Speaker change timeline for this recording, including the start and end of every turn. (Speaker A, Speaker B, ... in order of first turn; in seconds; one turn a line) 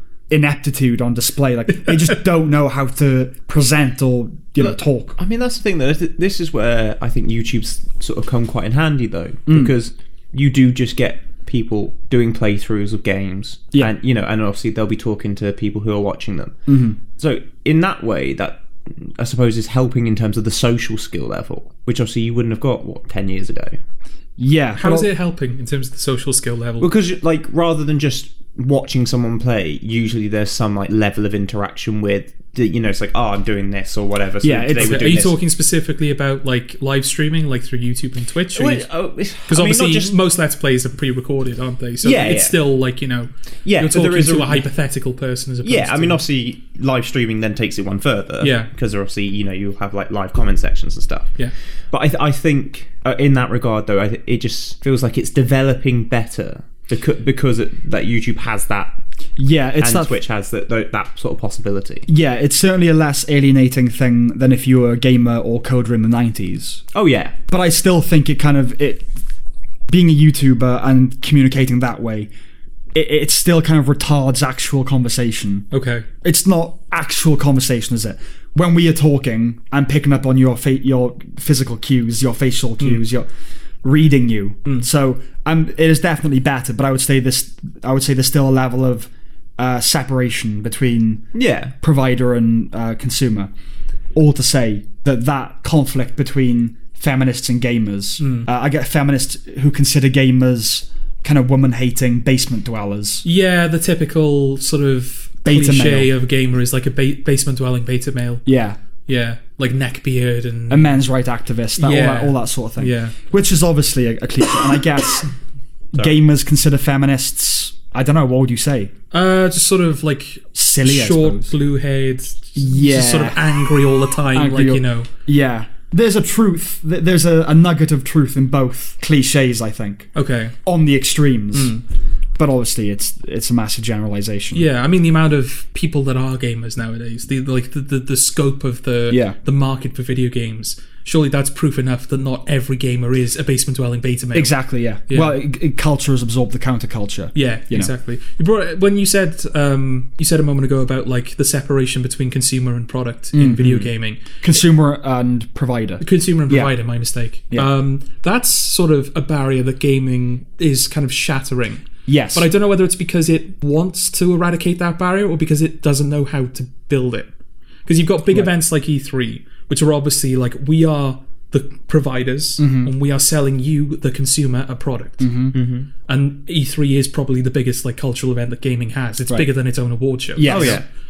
Speaker A: 0.3-5.2
Speaker B: 4.6-16.6
Speaker A: 9.5-9.7
Speaker A: 16.7-17.0
Speaker B: 17.2-23.8
Speaker A: 24.4-25.1
Speaker C: 24.8-26.9
Speaker B: 26.8-35.4
Speaker A: 34.4-35.2
Speaker C: 34.7-38.9
Speaker B: 38.5-40.2
Speaker C: 39.5-46.2
Speaker B: 42.0-42.6
Speaker B: 43.6-44.6
Speaker B: 45.6-51.3
Speaker C: 48.4-48.7
Speaker B: 51.9-59.0
Speaker A: 59.4-60.1
Speaker B: 59.8-62.1
Speaker A: 62.1-66.8
Speaker B: 66.9-67.3
Speaker A: 67.5-69.1
Speaker A: 69.9-72.3
Speaker A: 72.9-75.7
Speaker C: 75.7-76.0
Speaker A: 76.2-83.3
Speaker A: 83.8-91.2
Speaker B: 91.3-91.7
Speaker A: 91.8-93.5
Speaker A: 94.1-103.2
Speaker C: 98.2-98.5
Speaker C: 103.2-108.4
Speaker A: 105.4-106.1
Speaker A: 108.5-108.8
Speaker C: 109.1-111.0
Speaker A: 110.7-115.3
Speaker C: 111.8-113.2
Speaker A: 115.9-118.9
Speaker C: 119.1-125.1
Speaker A: 120.5-121.5
Speaker A: 122.5-123.6
Speaker A: 124.3-130.1
Speaker C: 130.1-130.5
Speaker A: 130.6-131.8
Speaker C: 131.5-131.8
Speaker A: 132.4-134.7
Speaker C: 134.5-144.5
Speaker A: 139.1-139.3
Speaker A: 144.3-147.9
Speaker C: 145.1-145.3
Speaker C: 147.3-154.6
Speaker A: 153.3-156.7
Speaker C: 156.0-167.3
Speaker A: 162.1-162.5
Speaker C: 167.8-175.3
Speaker A: 172.6-172.9
Speaker A: 175.2-175.5
Speaker B: 175.5-175.9
Speaker C: 176.0-180.8
Speaker A: 180.3-180.8
Speaker B: 180.4-180.8